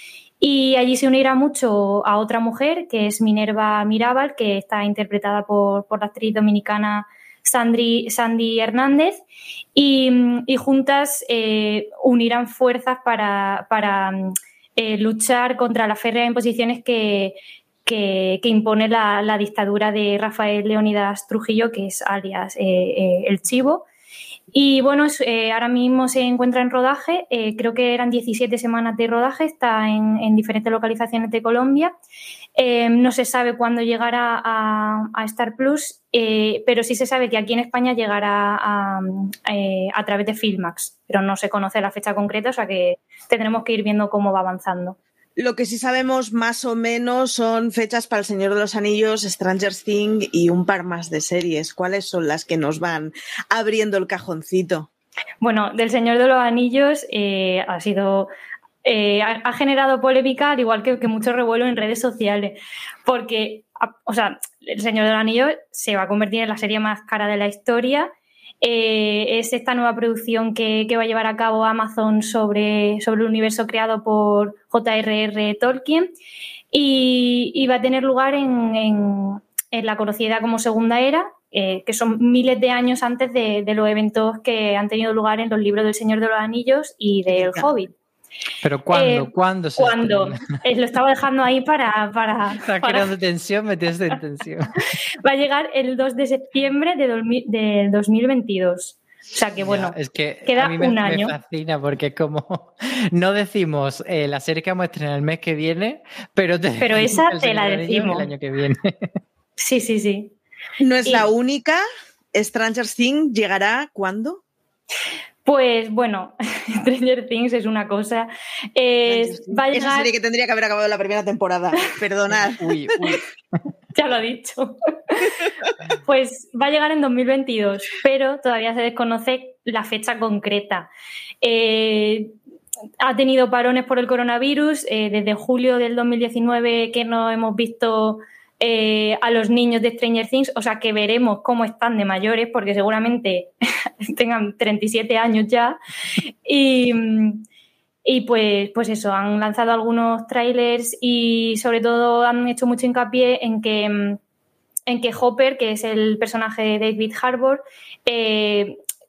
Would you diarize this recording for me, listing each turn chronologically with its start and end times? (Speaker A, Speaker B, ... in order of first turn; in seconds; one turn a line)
Speaker A: 0.4-9.2
Speaker A: 9.7-23.8
Speaker A: 24.5-31.9
Speaker A: 32.5-45.0
Speaker B: 45.4-54.9
Speaker A: 55.4-58.3
Speaker A: 58.8-68.1
Speaker A: 68.6-76.1
Speaker A: 76.7-87.9
Speaker B: 87.3-87.7
Speaker C: 88.6-90.4
Speaker A: 88.9-93.1
Speaker C: 92.6-94.7
Speaker A: 95.2-101.3
Speaker C: 99.6-108.9
Speaker A: 106.8-108.3
Speaker A: 109.6-110.3
Speaker B: 110.8-114.4
Speaker A: 115.4-120.1
Speaker B: 119.0-122.7
Speaker C: 122.3-123.2
Speaker A: 123.9-125.4
Speaker A: 126.0-130.9
Speaker A: 131.4-132.3
Speaker A: 133.0-143.5
Speaker A: 144.0-145.8
Speaker A: 146.4-147.4
Speaker A: 148.0-154.2
Speaker A: 154.9-158.8